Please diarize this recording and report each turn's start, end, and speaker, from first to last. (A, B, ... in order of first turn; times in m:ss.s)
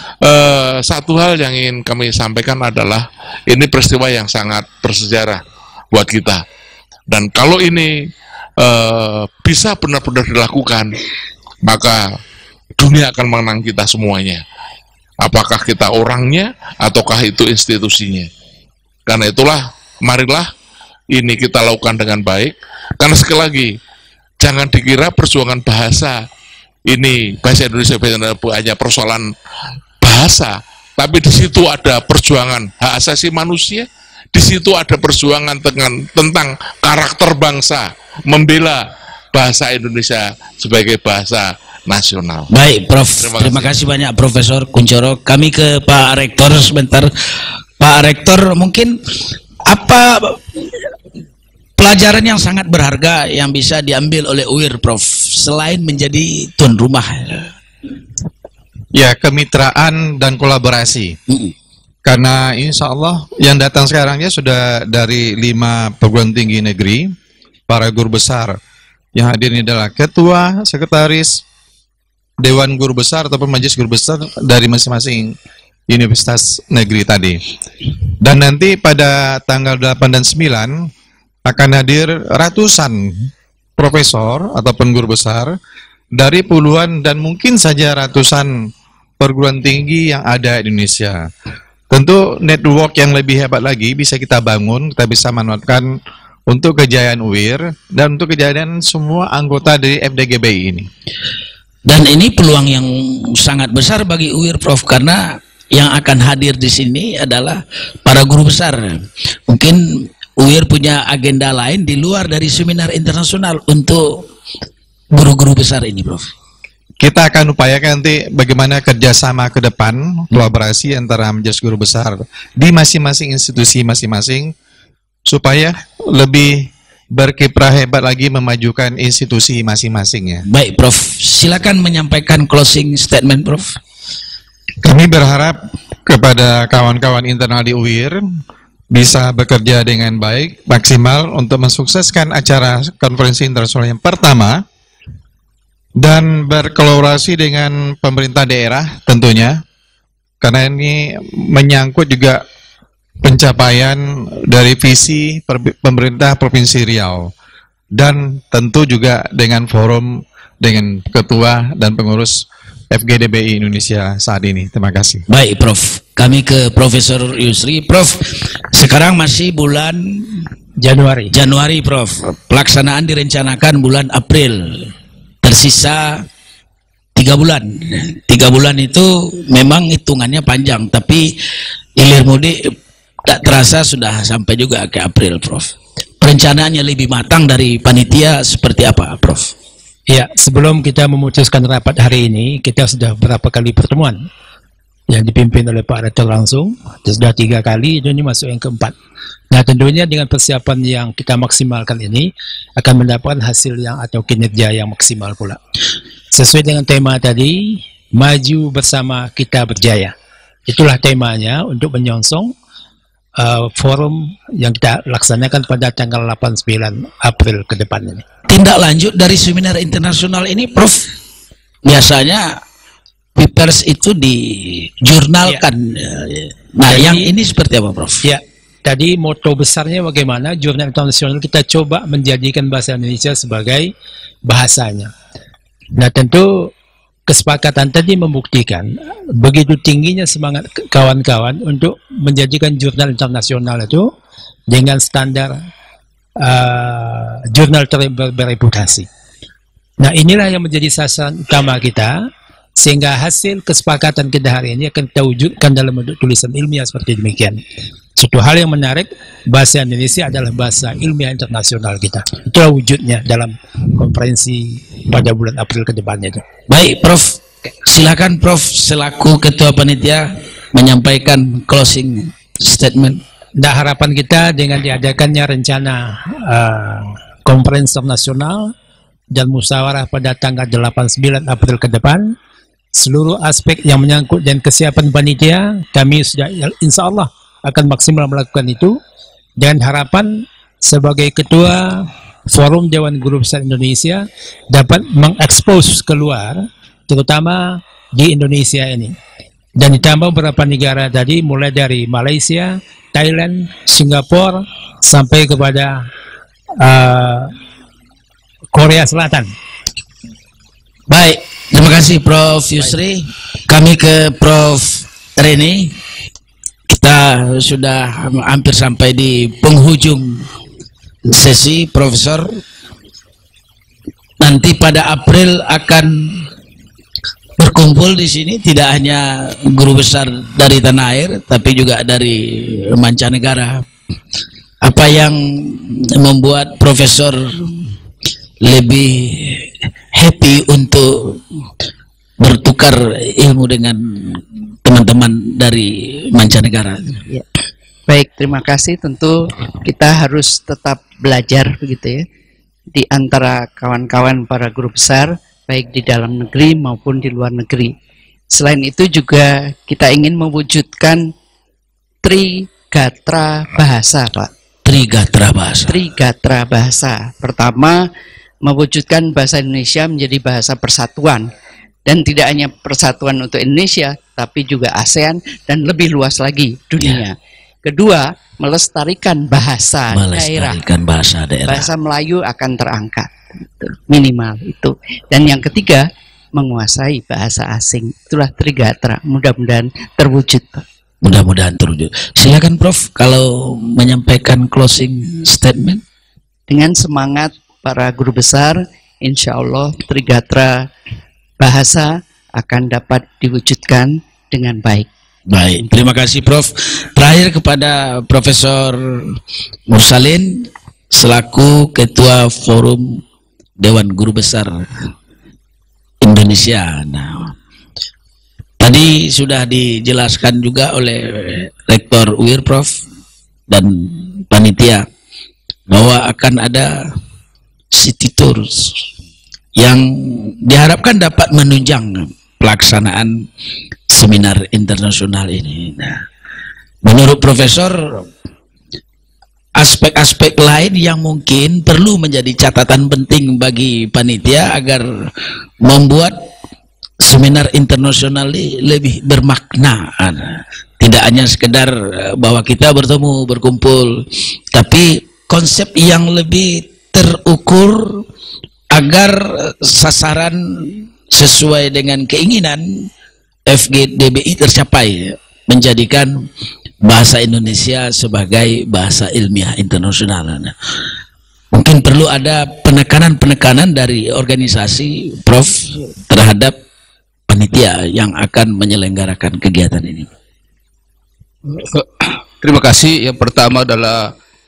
0:00.2-0:05.4 A
0:05.9-0:06.4 A
0:07.1-0:07.9 A
0:08.6-0:10.9 A
0:11.6-0:12.0 A
0:12.8-0:14.4 A
0:15.2-0:18.3 A
0:19.1-0:20.5 A
0:21.1-0:23.7 A
0:24.4-0:26.2 A
0:26.9-0:29.3 A
0:30.0-0:42.5 A
0:42.5-0:47.1 B
0:43.2-0:43.8 A
0:47.8-0:49.0 B
0:49.7-0:50.4 B
0:51.8-0:57.5 B
0:59.0-1:01.2 C
1:02.1-1:07.1 C
1:07.7-1:08.6 C
1:09.2-1:11.4 C
1:12.4-1:15.3 C
1:15.9-1:17.4 C
1:18.2-1:20.9 C
1:21.5-1:25.5 C
1:26.2-1:28.5 C
1:29.2-1:31.3 C
1:31.9-1:35.9 C
1:36.5-1:40.9 C
1:41.9-1:54.3 B
1:55.1-1:56.3 B
1:57.0-2:04.5 C
2:05.3-2:10.4 C
2:10.5-2:13.8 B
2:14.8-2:18.2 C
2:18.9-2:24.6 C
2:26.0-2:29.6 C
2:30.4-2:32.4 C
2:33.2-2:37.3 C
2:38.0-2:45.2 C
2:45.3-2:50.5 B
2:50.8-2:51.3 D
2:51.3-2:54.9 B
2:55.4-2:56.2 B
2:57.2-3:01.3 B
3:02.0-3:02.7 B
3:03.3-3:09.5 B
3:10.1-3:14.2 D
3:15.1-3:19.0 D
3:19.5-3:25.6 D
3:26.3-3:30.1 D
3:30.7-3:32.5 D
3:33.4-3:38.2 D
3:38.5-3:41.1 B
3:41.8-3:42.6 B
3:43.4-3:48.2 B
3:46.9-3:47.3 D
3:48.2-3:53.9 D
3:54.4-3:55.1 D
3:56.0-3:56.7 D
3:57.3-4:04.1 D
4:04.7-4:05.6 D
4:06.4-4:09.1 D
4:10.0-4:12.2 D
4:12.8-4:17.6 D
4:18.2-4:26.4 D
4:26.7-4:33.2 B
4:33.6-4:38.7 D
4:39.3-4:42.3 D
4:42.9-4:49.0 D
4:49.6-4:59.2 D
4:59.8-5:06.0 D
5:06.8-5:07.5 D
5:08.7-5:09.5 D
5:11.1-5:15.9 B
5:16.9-5:20.4 B
5:21.3-5:22.6 B
5:24.4-5:26.5 B
5:27.6-5:33.8 B
5:34.8-5:37.8 B
5:38.6-5:41.4 B
5:42.4-5:47.2 B
5:48.1-5:52.2 E
5:52.9-5:57.9 E
5:58.5-6:01.2 E
6:02.2-6:04.5 E
6:04.8-6:06.0 B
6:05.9-6:08.0 E
6:08.6-6:11.5 E
6:12.1-6:20.8 E
6:20.1-6:21.9 B
6:21.6-6:26.0 E
6:26.6-6:30.8 E
6:31.2-6:36.0 B
6:36.7-6:40.7 E
6:41.6-6:45.1 E
6:45.5-6:49.4 B
6:49.9-6:53.2 B
6:53.8-6:54.7 B
6:56.2-6:57.5 B
6:58.8-7:03.0 B
7:03.7-7:05.1 B
7:05.9-7:07.0 B
7:07.9-7:09.0 B
7:09.8-7:13.5 B
7:14.1-7:16.2 B
7:17.0-7:18.3 B
7:19.8-7:26.5 B
7:27.2-7:38.2 B
7:38.9-7:43.1 B
7:43.7-7:46.5 B
7:47.0-7:50.7 B
7:51.7-7:56.8 B
7:57.5-8:00.3 B
8:01.7-8:04.3 F